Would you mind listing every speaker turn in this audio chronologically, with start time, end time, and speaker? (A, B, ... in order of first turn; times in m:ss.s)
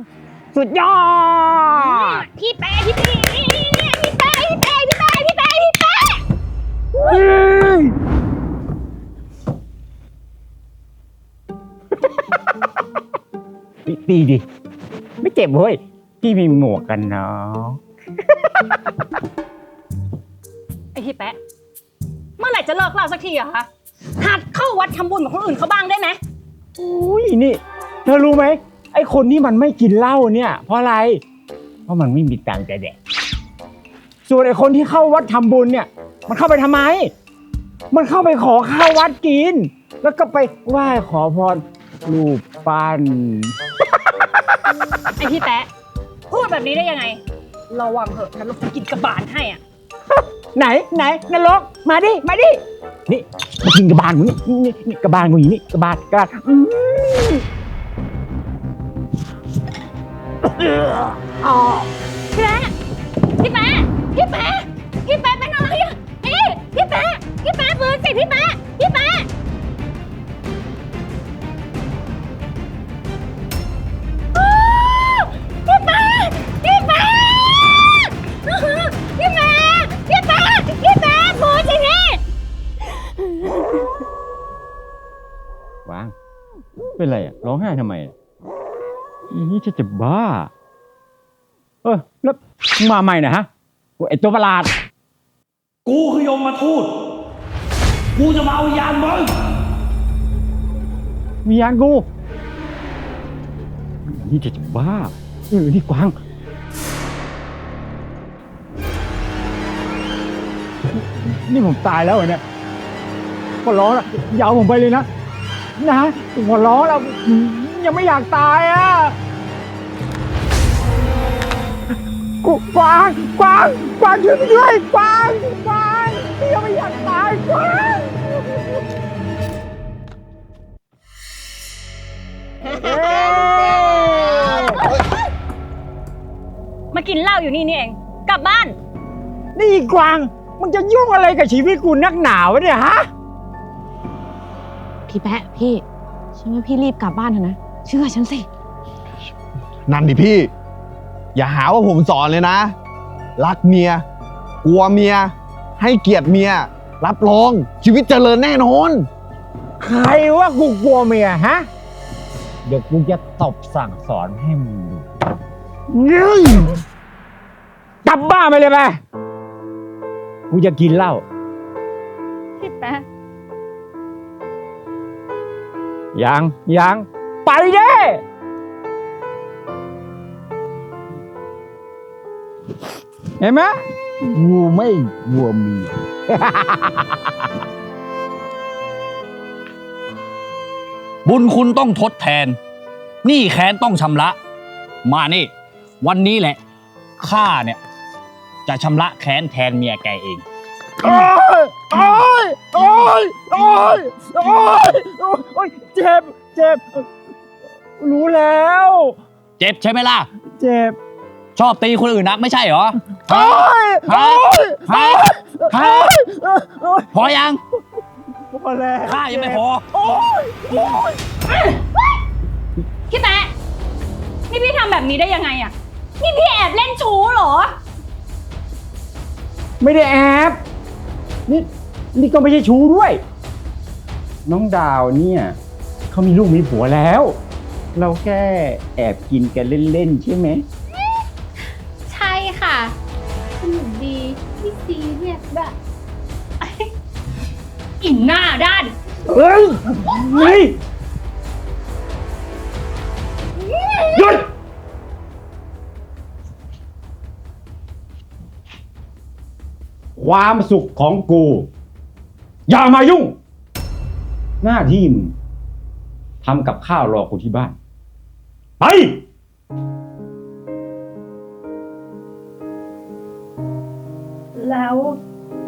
0:00.5-0:02.2 A
0:01.8-0:06.2 B
0:07.0-0:08.0 A
0:13.9-0:14.4 A
0:15.2-0:17.8 A
0:20.9-0:21.4 B
0:22.4-0:26.2 B
0:26.8-0:31.2 A
0:31.9-0:33.0 A
0:34.3-0:37.1 A
0:37.9-0:43.5 A
0:45.2-0:45.7 B
0:46.3-0:49.6 B
0:50.6-0:57.4 A
1:01.4-1:02.7 B
1:03.4-1:09.3 B
1:14.3-1:22.2 B
1:25.8-1:26.1 A
1:27.0-1:28.1 A
1:29.3-1:30.5 A
1:31.8-1:34.7 A
1:35.8-1:36.9 C
1:38.1-1:39.3 C
1:41.4-1:42.1 A
1:44.0-1:46.2 A
1:50.9-1:52.4 A
1:53.6-1:55.1 A
1:55.8-1:59.2 A
2:02.4-2:08.5 A
2:12.7-2:14.8 A
2:16.9-2:18.8 B
2:19.6-2:23.1 A
2:25.1-2:25.8 D
2:26.4-2:28.5 D
2:29.9-2:30.5 E
2:31.3-2:32.8 E
2:33.4-2:34.1 E
2:34.6-2:39.1 E
2:39.8-2:41.7 A
2:42.6-2:45.1 A
2:45.9-2:46.8 A
2:48.0-2:49.0 A
2:50.5-2:51.2 A
2:52.6-2:53.0 B
2:56.1-2:58.2 A
3:03.4-3:07.4 A
3:11.2-3:12.6 C
3:13.2-3:14.4 C
3:15.0-3:16.6 C
3:17.2-3:17.8 C
3:18.7-3:20.4 C
3:21.0-3:27.1 A
3:28.0-3:29.2 A
3:29.6-3:30.3 C
3:30.6-3:31.0 A
3:31.6-3:36.1 C
3:33.2-3:37.3 A
3:37.1-3:37.6 C
3:38.5-3:41.1 A
3:39.0-3:39.9 C
3:41.5-3:41.8 B
3:43.1-3:43.5 B
3:44.5-3:47.7 B
3:49.8-3:50.6 A
3:51.5-3:53.2 A
3:54.5-3:55.6 A
3:56.1-3:57.4 A
3:58.0-4:00.6 A
4:02.1-4:02.9 F
4:03.6-4:05.7 F
4:08.0-4:08.9 B
4:09.3-4:10.8 A
4:14.0-4:14.5 A
4:20.2-4:21.7 A
4:22.7-4:23.4 A
4:24.6-4:25.3 A
4:26.4-4:27.8 A
4:28.8-4:29.2 A
4:34.5-4:35.2 B